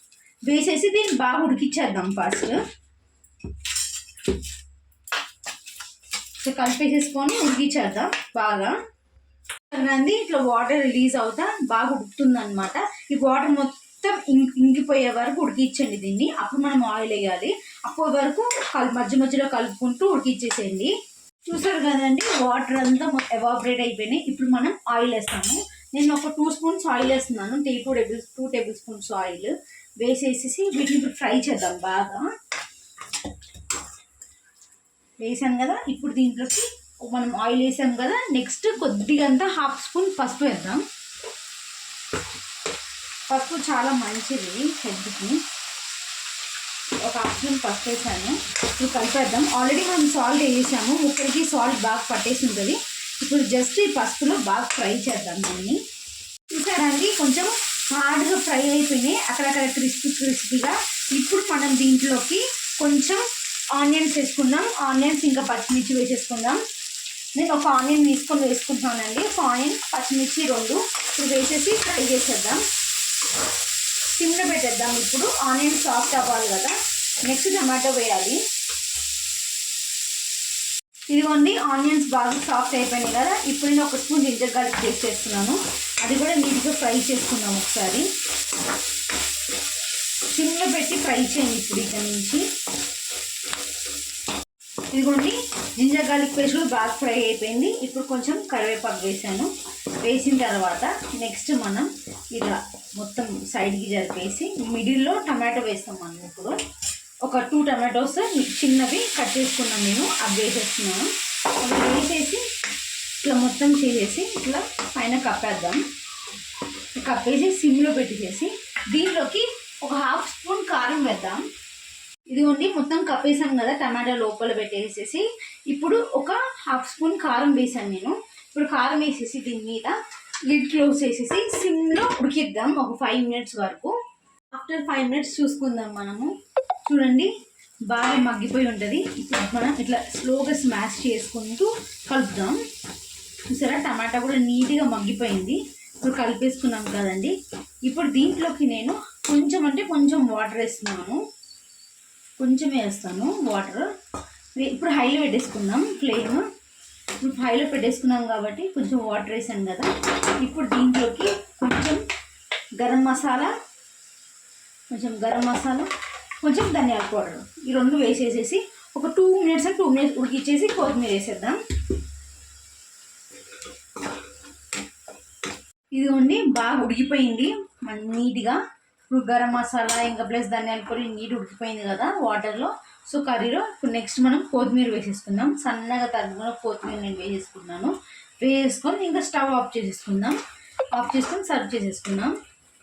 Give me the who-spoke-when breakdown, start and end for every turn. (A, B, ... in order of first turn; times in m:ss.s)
0:00.5-0:02.6 A
0:06.4-0:08.8 A
0:09.7-0:20.9 A
0:21.5-0:32.3 A
0:35.2-0:40.8 A
0:43.3-0:45.4 A
0:47.0-0:55.8 A
0:56.5-1:03.2 A
1:03.7-1:06.6 A
1:07.4-1:12.6 A
1:14.1-1:18.4 A
1:21.1-1:28.1 A
1:30.3-1:32.4 A
1:34.9-1:46.6 A
1:47.2-1:51.1 A
1:51.6-1:52.4 A
1:53.2-1:55.8 A
1:57.0-2:01.4 A
2:02.3-2:10.0 A
2:10.5-2:14.0 A
2:14.5-2:16.3 A
2:16.9-2:17.3 A
2:17.9-2:22.6 A
2:23.5-2:27.3 A
2:27.9-2:31.2 A
2:32.4-2:33.9 A
2:34.6-2:36.4 A
2:37.2-2:42.0 A
2:42.8-2:43.5 A
2:44.9-2:45.9 A
2:46.4-2:51.6 A
2:55.9-3:10.4 A
3:10.9-3:12.4 A